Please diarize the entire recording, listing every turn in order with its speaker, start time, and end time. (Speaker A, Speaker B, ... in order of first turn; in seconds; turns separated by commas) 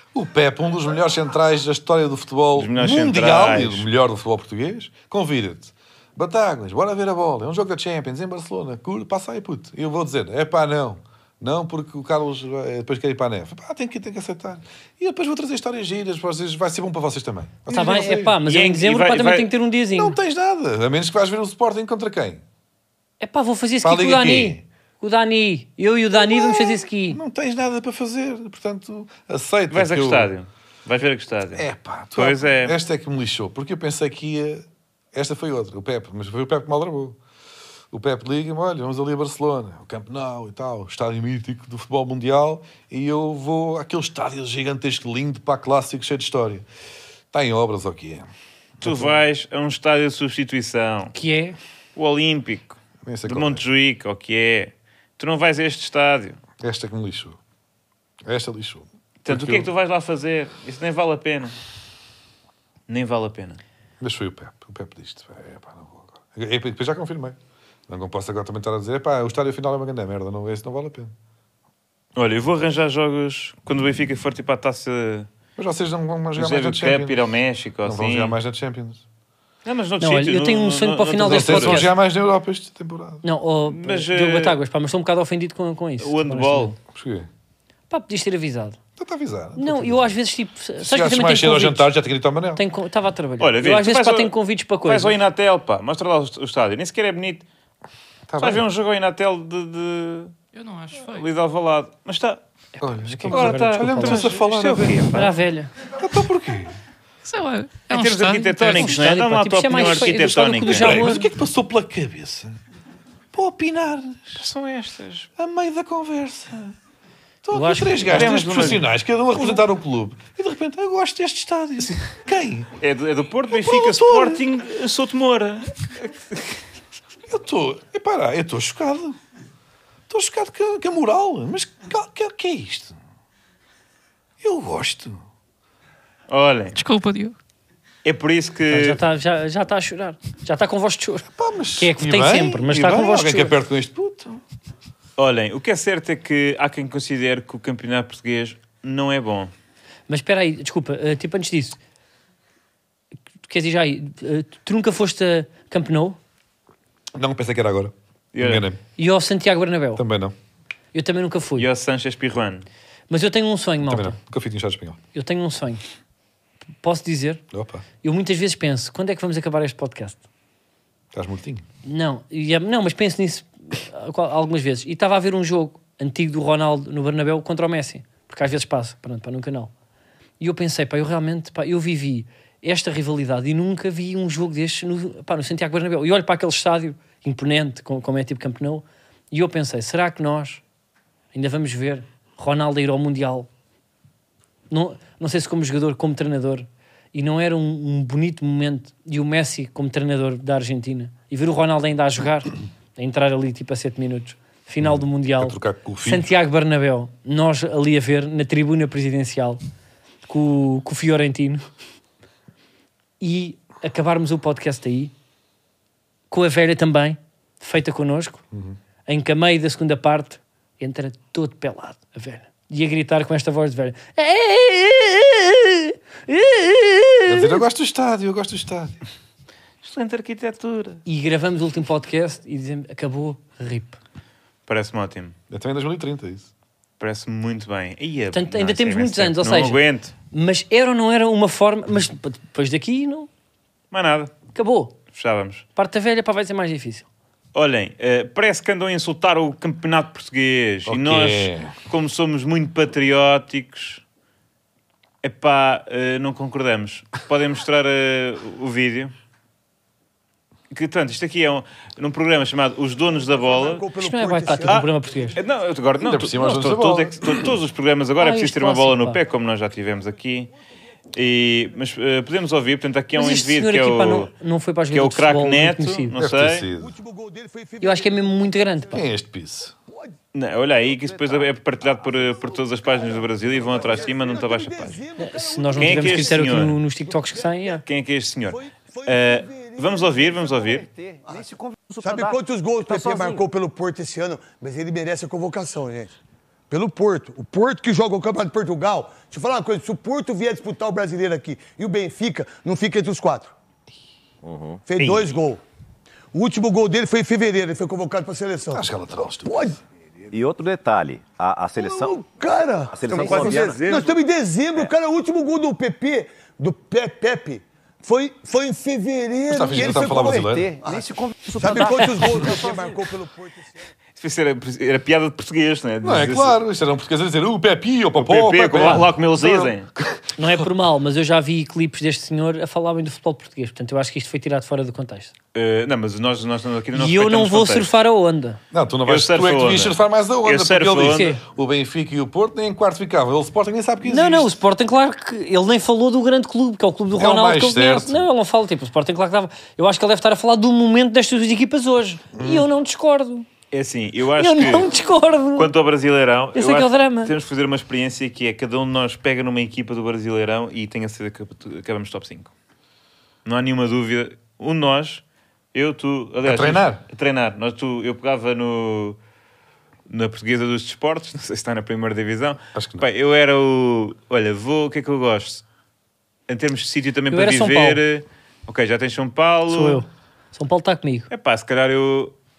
Speaker A: 0.1-18.4, Speaker B: 2.5-3.9, Speaker C: 17.7-20.1, Speaker B: 18.4-19.5, Speaker A: 19.9-22.4, Speaker C: 23.2-27.2, Speaker A: 23.8-24.6, Speaker A: 26.3-30.3, Speaker B: 29.7-32.8, Speaker A: 31.5-37.2, Speaker A: 37.9-46.6, Speaker A: 47.3-48.3, Speaker A: 48.8-49.2, Speaker B: 48.8-51.1, Speaker C: 51.1-51.6, Speaker B: 52.0-56.4, Speaker A: 53.0-53.6, Speaker A: 56.6-57.4, Speaker A: 58.2-59.7, Speaker B: 59.2-61.5, Speaker B: 62.9-63.6, Speaker A: 64.0-67.4, Speaker A: 67.9-71.1, Speaker B: 72.2-75.3, Speaker A: 75.6-77.2, Speaker B: 76.3-78.3, Speaker A: 77.8-79.0, Speaker B: 79.6-81.8, Speaker C: 80.0-81.9, Speaker A: 81.2-83.2, Speaker C: 83.2-86.8, Speaker B: 83.7-84.6, Speaker B: 86.0-86.7, Speaker A: 86.9-87.3, Speaker C: 87.9-88.8, Speaker A: 89.0-90.1, Speaker C: 89.6-91.9, Speaker A: 90.8-92.6, Speaker C: 92.5-95.2, Speaker B: 93.4-97.5, Speaker A: 98.3-98.6, Speaker B: 98.4-100.3, Speaker D: 100.5-101.3, Speaker B: 101.0-102.4, Speaker C: 102.8-104.3, Speaker A: 102.8-105.1, Speaker B: 103.3-105.3, Speaker C: 105.1-105.7, Speaker A: 106.0-106.8, Speaker D: 107.2-109.0, Speaker B: 107.9-111.0, Speaker C: 108.7-111.3, Speaker A: 110.7-112.6, Speaker A: 113.3-114.4, Speaker B: 114.3-115.3, Speaker A: 115.4-116.7, Speaker A: 117.4-122.7, Speaker C: 117.5-118.7, Speaker B: 118.0-118.9, Speaker B: 122.8-126.5, Speaker A: 123.5-124.4, Speaker A: 127.3-129.2, Speaker A: 130.1-133.0, Speaker A: 134.4-135.2, Speaker B: 136.3-136.8, Speaker D: 136.7-137.3, Speaker B: 138.0-139.0, Speaker C: 138.7-143.5, Speaker A: 141.3-144.4, Speaker B: 145.2-149.5, Speaker C: 150.1-151.8, Speaker C: 153.4-156.2, Speaker A: 157.1-158.8, Speaker B: 158.3-158.6, Speaker C: 159.0-160.0, Speaker A: 160.0-160.3, Speaker C: 160.9-161.7, Speaker B: 161.6-162.7, Speaker C: 163.1-164.2, Speaker A: 163.8-165.0, Speaker C: 165.1-165.8, Speaker C: 166.8-167.4, Speaker A: 167.5-167.8, Speaker C: 168.0-170.2, Speaker A: 171.1-171.6, Speaker C: 171.8-179.7, Speaker C: 180.4-190.6, Speaker C: 191.3-193.5, Speaker C: 194.7-209.6, Speaker A: 204.8-206.3, Speaker C: 210.2-211.6, Speaker C: 213.2-215.1, Speaker C: 216.3-218.4, Speaker A: 218.5-218.8, Speaker C: 219.1-227.6, Speaker A: 227.2-229.0, Speaker B: 229.8-231.0, Speaker C: 231.1-234.0, Speaker B: 234.7-235.3, Speaker A: 235.5-236.5, Speaker B: 237.0-240.1, Speaker C: 238.3-243.3, Speaker B: 243.9-244.3, Speaker C: 244.5-244.9, Speaker B: 245.1-245.6, Speaker C: 245.8-247.1, Speaker B: 247.5-254.0, Speaker A: 250.8-251.8, Speaker B: 255.2-259.1, Speaker B: 260.7-263.9, Speaker E: 263.3-265.4, Speaker C: 264.0-265.4, Speaker B: 264.7-270.5, Speaker A: 266.0-267.5, Speaker C: 268.2-269.2, Speaker B: 271.1-274.3, Speaker C: 273.1-276.2, Speaker B: 274.9-276.7, Speaker A: 276.2-276.9, Speaker E: 276.7-279.0, Speaker C: 277.8-279.0, Speaker A: 278.9-279.7, Speaker E: 279.9-280.1, Speaker B: 280.3-285.0, Speaker F: 281.1-281.4, Speaker E: 283.0-287.8, Speaker C: 285.2-287.8, Speaker B: 285.8-286.8, Speaker B: 287.8-290.9, Speaker E: 288.4-290.5, Speaker F: 290.8-292.4, Speaker E: 292.0-296.1, Speaker F: 292.9-293.4, Speaker E: 296.7-303.5, Speaker F: 304.4-304.8, Speaker E: 304.9-305.6, Speaker B: 304.9-305.3, Speaker E: 306.3-308.9, Speaker A: 308.7-309.7, Speaker E: 309.4-309.8, Speaker F: 310.3-312.2, Speaker E: 311.8-323.6, Speaker F: 312.9-314.1, Speaker A: 319.5-320.7, Speaker F: 320.4-322.9, Speaker B: 324.2-326.6, Speaker A: 326.0-330.6, Speaker B: 328.1-329.9, Speaker C: 330.4-335.3, Speaker B: 335.5-337.9, Speaker C: 336.9-338.6, Speaker A: 338.7-344.6, Speaker B: 339.1-341.4, Speaker C: 341.1-341.4, Speaker C: 344.0-353.5, Speaker A: 347.1-348.2, Speaker A: 352.3-352.7, Speaker B: 353.7-354.9, Speaker C: 354.4-355.7, Speaker B: 355.6-362.5, Speaker C: 356.5-357.3, Speaker B: 363.4-365.2, Speaker B: 365.7-369.2, Speaker A: 366.4-367.0, Speaker B: 370.1-375.6, Speaker A: 372.7-373.1, Speaker B: 376.5-380.0, Speaker C: 377.3-378.0, Speaker C: 379.7-381.3, Speaker B: 381.3-382.3